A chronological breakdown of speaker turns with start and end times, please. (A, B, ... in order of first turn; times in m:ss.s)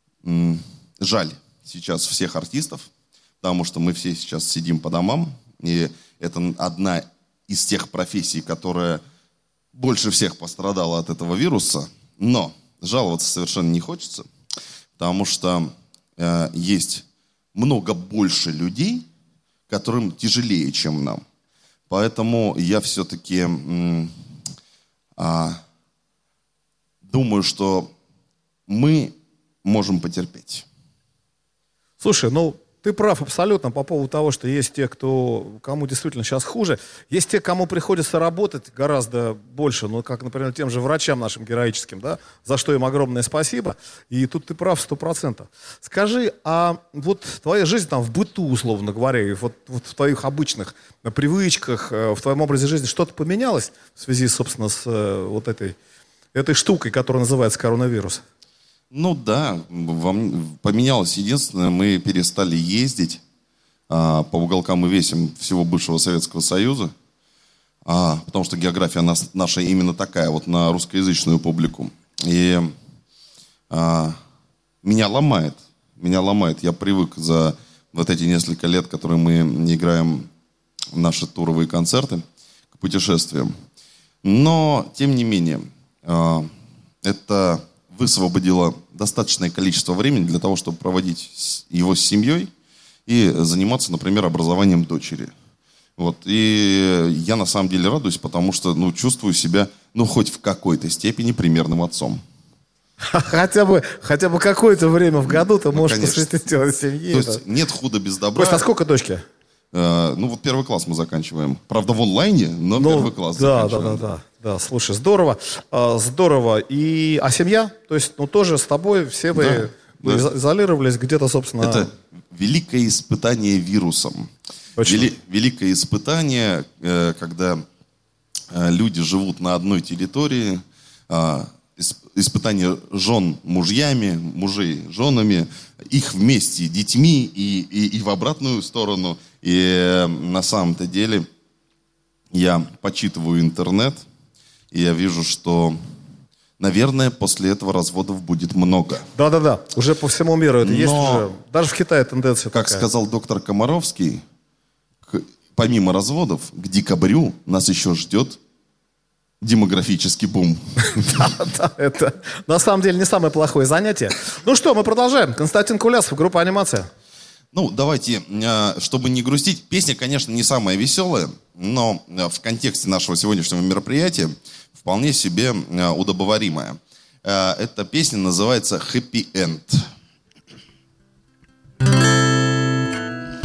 0:00.2-0:02.9 A
0:03.4-0:09.0 A
0:09.7-0:14.3 A
0:15.0-0:19.0 A
0:19.7-0:21.2 A
0:21.9-0:24.1 A
0:25.2-0:25.6 A
0:27.0-0:27.9 A
0:28.7-0:30.6 A
0:32.0-0:55.8 B
0:56.3-0:58.2 B
0:58.9-1:03.2 A
1:03.9-1:06.9 A
1:07.8-1:12.7 A
1:13.7-1:14.2 A
1:14.8-1:20.3 A
1:20.9-1:23.5 A
1:24.2-1:26.5 A
1:27.0-1:32.5 A
1:33.1-1:35.3 A
1:36.0-1:42.2 A
1:43.1-1:47.4 B
1:45.2-1:46.3 A
1:47.1-1:48.6 A
1:48.3-1:49.2 B
1:49.7-1:54.1 A
1:52.8-2:01.9 B
1:59.3-2:00.2 A
2:01.6-2:04.3 A
2:04.8-2:05.1 B
2:04.8-2:07.6 A
2:08.5-2:21.3 A
2:22.3-2:24.0 A
2:24.7-2:25.8 A
2:26.6-2:29.1 A
2:29.1-2:32.8 B
2:30.6-2:31.3 A
2:32.5-2:34.2 A
2:35.1-2:38.4 A
2:39.4-2:41.2 A
2:41.1-2:46.9 B
2:47.5-2:59.9 A